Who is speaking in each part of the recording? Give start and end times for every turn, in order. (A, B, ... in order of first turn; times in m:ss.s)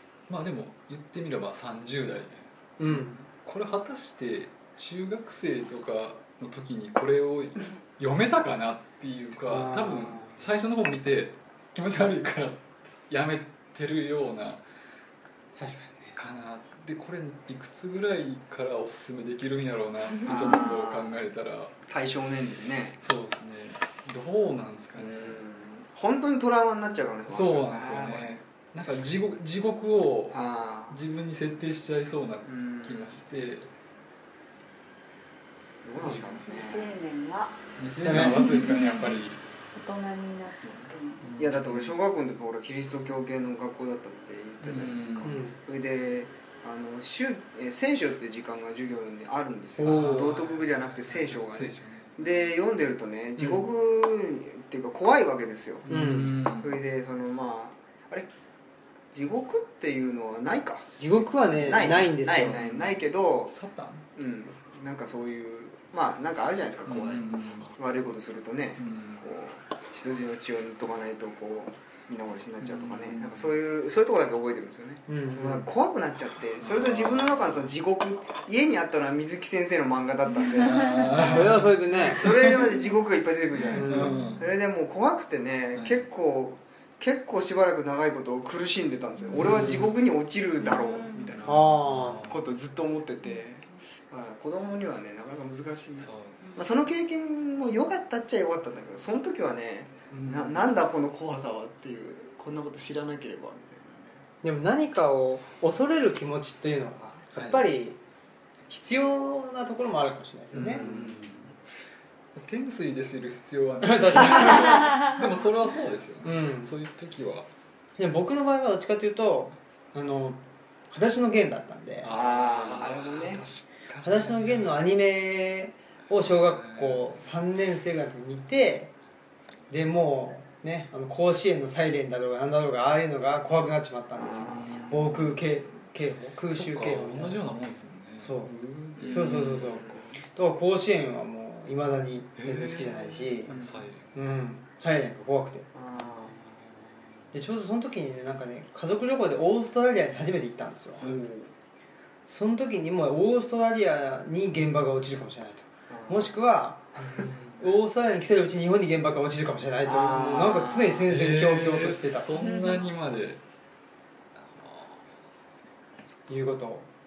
0:00.3-0:02.8 A
0:02.8-0:03.2 B
0:03.4-0:14.6 A
0:09.5-0:10.4 B
0:15.5-0:16.2 B
0:16.2-0:21.7 A
0:20.2-0:21.2 C
0:21.9-0:23.0 C
0:23.0-0:25.4 A
0:25.0-0:29.0 C
0:27.3-0:33.7 A
0:30.3-0:31.0 C
0:32.4-0:33.2 C
0:35.8-0:36.9 C
0:36.0-0:36.3 A
0:36.4-0:37.6 D
0:37.8-0:39.4 A
0:38.0-0:38.4 B
0:38.2-0:39.2 E
0:39.7-0:40.8 E
0:40.6-0:58.3 C
0:40.9-0:41.3 D
0:41.2-0:41.9 A
0:44.6-0:45.4 A
0:45.2-0:45.6 B
0:49.8-0:50.3 B
0:49.8-0:52.1 A
0:55.8-0:56.8 A
0:55.9-0:56.3 B
0:59.1-1:00.9 C
1:01.0-1:02.6 B
1:01.4-1:03.5 C
1:02.4-1:04.0 A
1:04.1-1:21.4 C
1:06.9-1:07.7 A
1:08.8-1:09.2 A
1:12.6-1:13.5 A
1:15.1-1:15.7 B
1:16.6-1:17.7 A
1:20.6-1:22.6 A
1:21.2-1:22.2 B
1:22.0-1:44.2 C
1:23.7-1:24.2 B
1:23.7-1:24.4 A
1:25.8-1:26.0 A
1:29.3-1:29.9 A
1:30.7-1:31.1 D
1:31.4-1:32.4 A
1:31.4-1:32.2 B
1:36.0-1:36.5 A
1:40.1-1:40.6 A
1:44.4-1:48.0 B
1:47.4-1:47.6 A
1:48.7-1:50.8 B
1:50.5-1:51.5 C
1:50.8-1:51.5 A
1:52.3-1:57.5 A
1:53.8-1:54.9 B
1:54.5-1:54.9 C
1:56.2-1:56.7 B
1:58.0-2:02.1 B
2:02.0-2:04.8 A
2:02.1-2:03.4 C
2:04.0-2:08.9 B
2:06.3-2:07.2 A
2:09.7-2:17.4 B
2:14.2-2:14.9 C
2:14.4-2:15.4 A
2:16.5-2:19.9 A
2:18.2-2:18.5 B
2:19.0-2:20.2 C
2:19.0-2:23.5 B
2:22.4-2:24.1 A
2:24.1-2:25.7 B
2:25.7-2:26.4 C
2:26.0-2:27.2 A
2:27.3-2:31.1 B
2:31.0-2:31.5 C
2:32.3-2:42.3 B
2:35.9-2:36.3 C
2:37.2-2:37.6 A
2:39.8-2:41.0 C
2:41.0-2:43.4 A
2:42.4-2:42.8 E
2:44.4-2:45.0 A
2:46.3-2:46.9 B